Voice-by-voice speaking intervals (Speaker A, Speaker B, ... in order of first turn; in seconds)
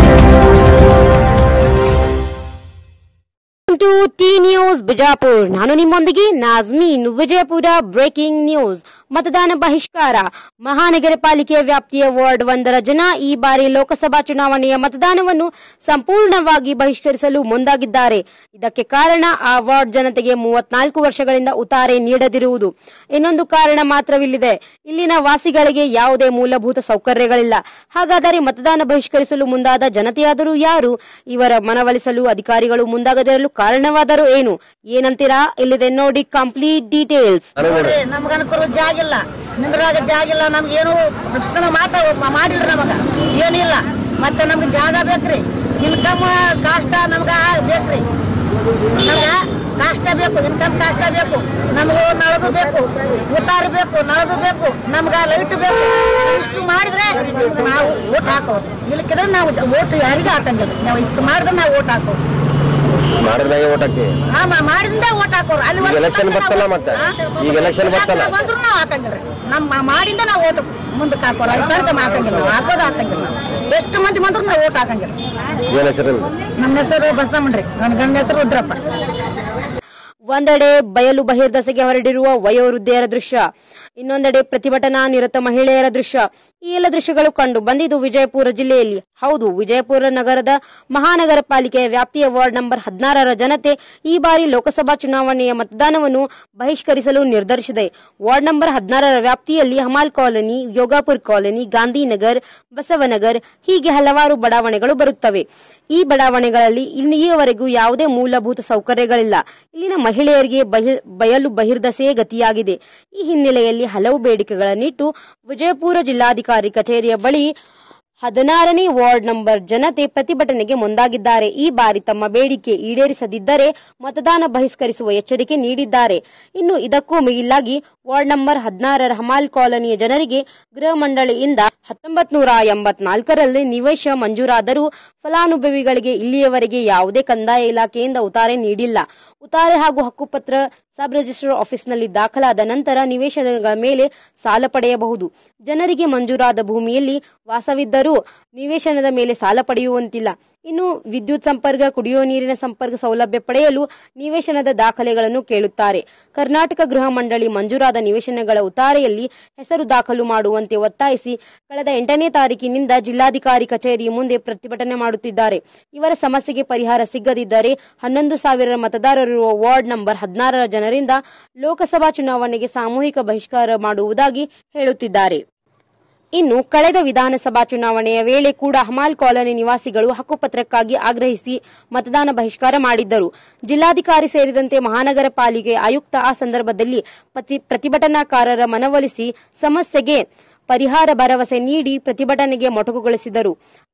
Speaker A: 3.7-37.5, 80.3-83.5, 84.0-117.5, 118.2-175.4, 176.3-193.5
Speaker B: 37.6-37.9, 63.2-64.1, 65.8-68.3, 75.7-76.3
Speaker C: 37.6-48.0, 49.0-62.2, 64.3-75.1, 76.6-78.8